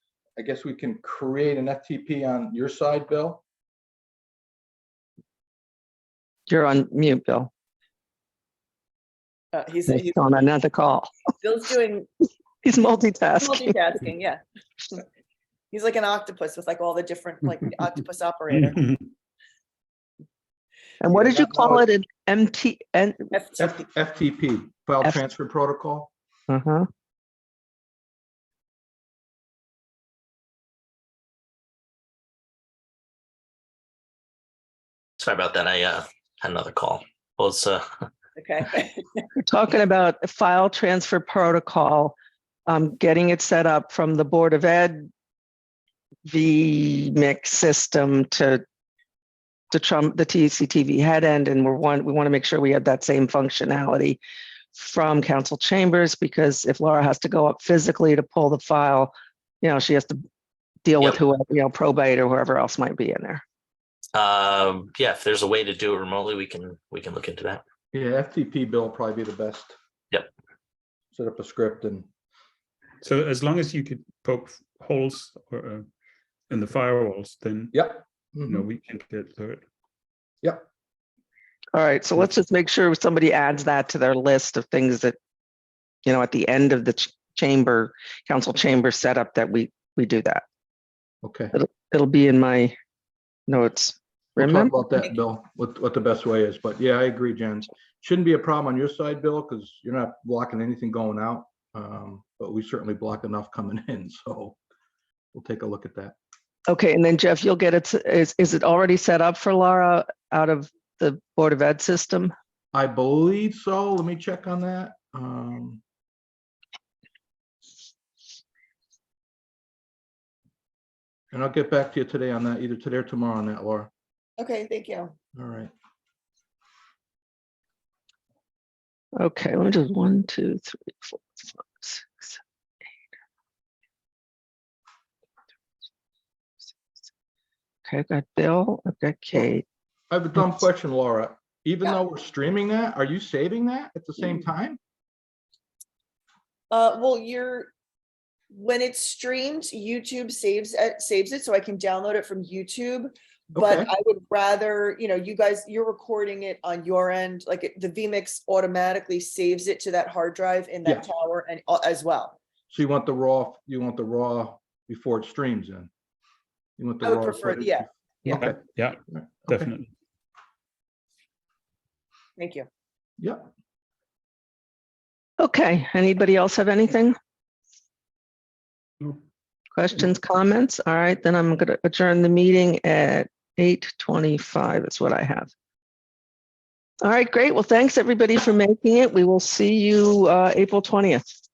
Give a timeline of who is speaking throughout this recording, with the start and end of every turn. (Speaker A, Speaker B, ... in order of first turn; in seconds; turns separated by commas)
Speaker A: 0.4-3.4, Speaker B: 6.5-7.5, Speaker C: 9.5-10.3, Speaker B: 9.9-11.1, Speaker C: 11.4-12.1, Speaker B: 12.6-13.8, Speaker C: 13.4-15.0, Speaker C: 15.7-18.7, Speaker D: 18.5-19.1, Speaker B: 21.0-23.3, Speaker A: 21.1-21.9, Speaker C: 23.3-23.8, Speaker A: 23.6-26.1, Speaker B: 26.5-26.9, Speaker E: 35.2-37.8, Speaker C: 38.4-39.0, Speaker B: 39.4-42.1, Speaker B: 42.7-45.1, Speaker B: 46.3-48.6, Speaker B: 49.7-54.2, Speaker B: 54.7-60.2, Speaker B: 60.8-63.4, Speaker E: 64.1-67.6, Speaker A: 67.9-69.8, Speaker A: 71.1-72.1, Speaker D: 73.0-75.8, Speaker D: 76.5-77.8, Speaker A: 77.7-78.6, Speaker D: 78.5-79.6, Speaker B: 81.7-85.2, Speaker B: 86.0-90.4, Speaker A: 91.2-91.5, Speaker B: 91.5-92.7, Speaker B: 93.5-94.8, Speaker A: 94.4-104.6, Speaker A: 105.3-106.2, Speaker B: 106.7-112.3, Speaker A: 112.7-115.8, Speaker A: 121.3-123.9, Speaker C: 124.4-125.1, Speaker A: 125.3-125.7, Speaker B: 129.2-132.4, Speaker B: 137.8-139.6, Speaker A: 140.1-144.8, Speaker B: 140.3-140.6, Speaker C: 146.7-147.7, Speaker C: 148.5-162.4, Speaker A: 153.5-153.9, Speaker A: 162.7-165.9, Speaker A: 166.8-169.7, Speaker C: 167.0-167.9, Speaker D: 168.3-169.9, Speaker C: 172.4-172.7, Speaker A: 173.2-173.5, Speaker B: 175.4-177.1, Speaker B: 179.7-185.5, Speaker B: 187.0-191.2